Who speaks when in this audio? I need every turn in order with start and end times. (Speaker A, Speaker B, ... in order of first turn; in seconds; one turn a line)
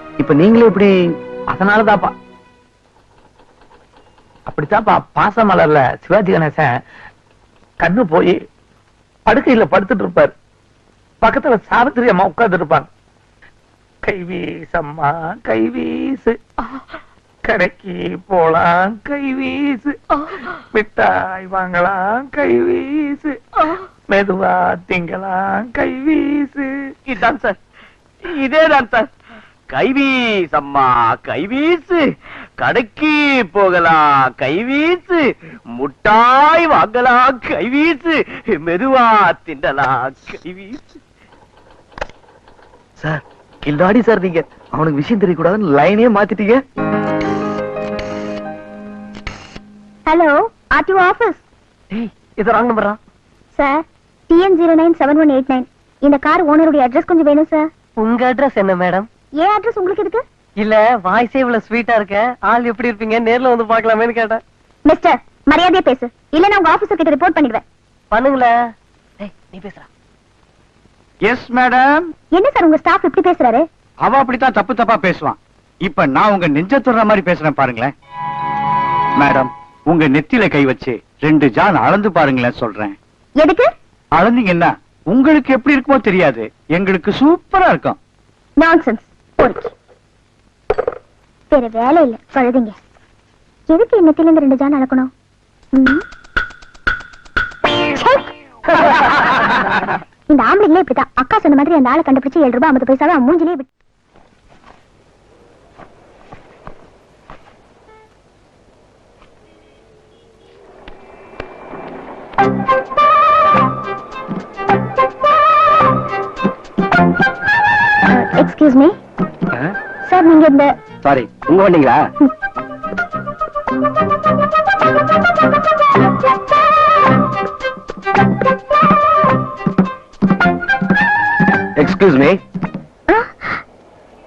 Speaker A: 0.2-0.9
Speaker B: 1.5-2.1
Speaker B: 4.5-6.7
Speaker B: 7.8-8.3
Speaker B: 9.3-10.3
Speaker B: 11.2-12.9
Speaker B: 14.0-16.4
Speaker B: 17.5-23.4
Speaker B: 24.1-26.7
Speaker C: 27.1-27.6
Speaker C: 28.3-29.1
Speaker C: 29.7-32.0
Speaker C: 32.6-40.8
Speaker A: 43.0-46.6
Speaker D: 50.1-51.4
Speaker E: 51.9-53.0
Speaker D: 53.5-57.7
Speaker E: 58.0-59.0
Speaker D: 59.4-60.2
Speaker E: 60.6-64.4
Speaker D: 64.9-67.6
Speaker E: 68.1-68.5
Speaker E: 69.2-69.9
Speaker F: 71.2-72.1
Speaker D: 72.3-73.7
Speaker F: 74.0-77.9
Speaker F: 79.2-83.0
Speaker D: 83.4-83.7
Speaker F: 84.2-88.0
Speaker D: 88.6-89.7
Speaker D: 91.5-92.8
Speaker D: 93.7-95.1
Speaker D: 95.7-96.0
Speaker D: 97.9-98.2
Speaker D: 98.8-99.1
Speaker D: 100.3-103.7
Speaker D: 118.1-118.9
Speaker D: 120.0-120.7
Speaker A: 131.8-132.4
Speaker D: 133.1-133.6